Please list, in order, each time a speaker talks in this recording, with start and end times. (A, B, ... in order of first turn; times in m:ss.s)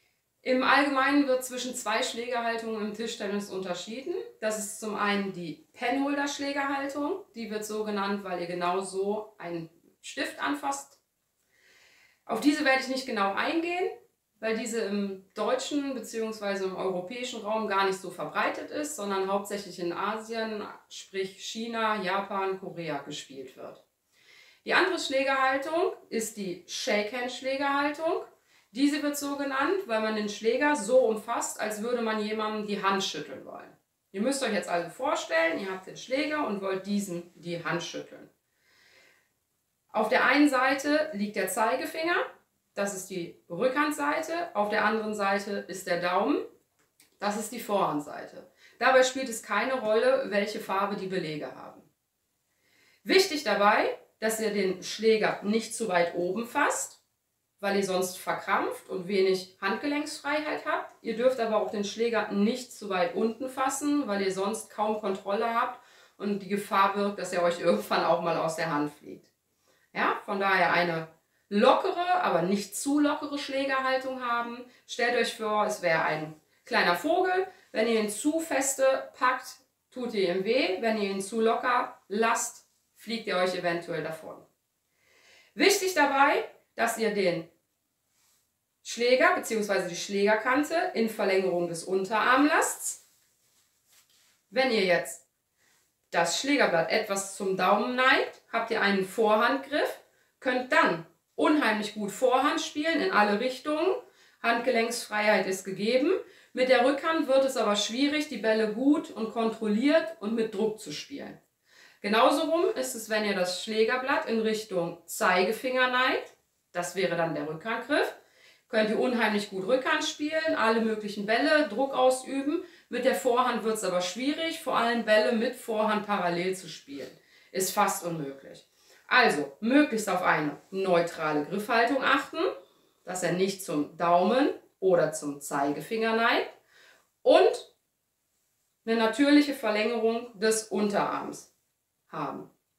0:00.4-0:11.0 A
0:12.2-0:23.8 A
0:24.6-0:38.3 A
0:39.9-0:46.4 A
0:47.2-0:51.9 A
0:53.0-0:57.0 A
0:57.6-1:09.3 A
1:09.9-1:24.4 A
1:25.5-1:27.5 A
1:28.8-1:33.0 A
1:34.5-1:35.2 A
1:36.1-1:51.4 A
1:52.0-1:58.2 A
1:58.7-2:12.5 A
2:13.0-2:16.5 A
2:17.2-2:17.7 A
2:18.8-2:21.5 A
2:22.1-2:22.5 A